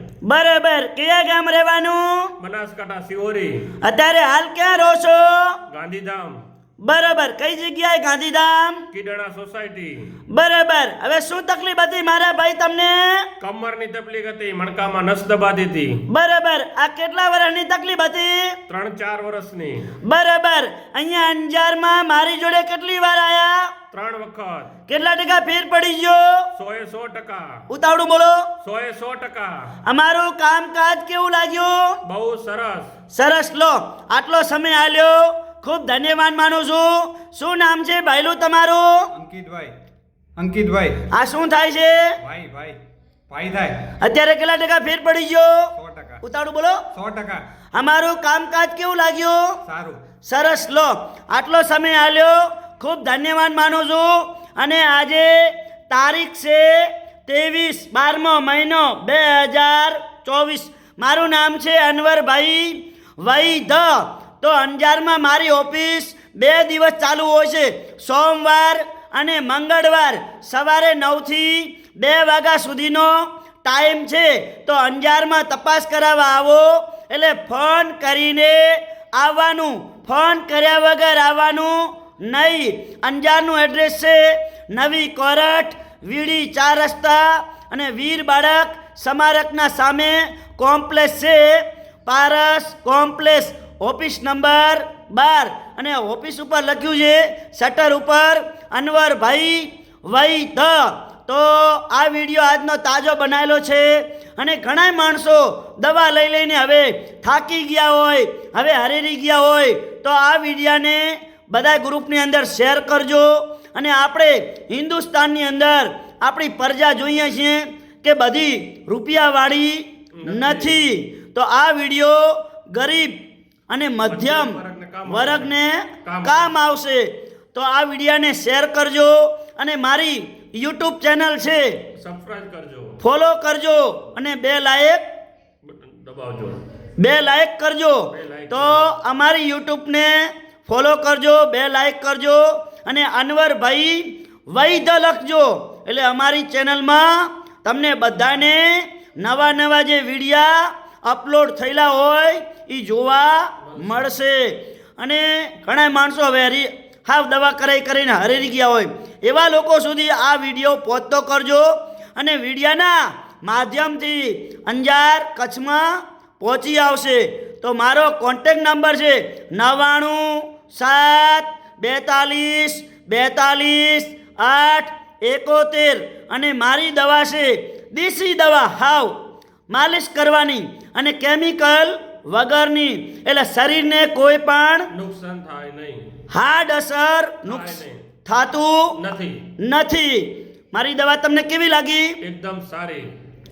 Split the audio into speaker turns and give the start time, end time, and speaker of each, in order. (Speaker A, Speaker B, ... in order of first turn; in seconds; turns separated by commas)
Speaker A: 0.2-2.3, Speaker B: 2.4-3.7, Speaker A: 3.8-5.6, Speaker B: 5.7-6.4, Speaker A: 6.8-8.8, Speaker B: 8.9-10.1, Speaker A: 10.3-13.3, Speaker B: 13.4-16.0, Speaker A: 16.1-18.6, Speaker B: 18.7-19.9, Speaker A: 20.0-23.7, Speaker B: 23.9-24.7, Speaker A: 24.9-26.5, Speaker B: 26.5-27.6, Speaker A: 27.7-28.5, Speaker B: 28.6-29.7, Speaker A: 29.8-32.0, Speaker B: 32.0-32.9, Speaker A: 33.1-39.1, Speaker C: 39.1-39.7, Speaker C: 40.4-41.1, Speaker A: 41.1-42.1, Speaker C: 42.2-43.9, Speaker A: 43.9-46.9, Speaker C: 45.7-46.2, Speaker C: 46.9-47.4, Speaker A: 47.8-49.6, Speaker C: 49.6-50.0, Speaker A: 50.2-123.2, Speaker B: 120.2-120.8, Speaker A: 123.7-131.8, Speaker B: 124.0-125.5, Speaker B: 126.0-126.5, Speaker B: 132.0-133.0, Speaker A: 133.0-135.0, Speaker B: 135.6-136.7, Speaker A: 137.0-179.2, Speaker B: 138.1-138.9, Speaker B: 153.6-154.0, Speaker A: 179.7-184.9, Speaker B: 184.9-186.2, Speaker A: 186.3-188.9, Speaker B: 187.4-188.0, Speaker B: 188.9-189.5, Speaker A: 189.6-192.2, Speaker B: 192.2-193.1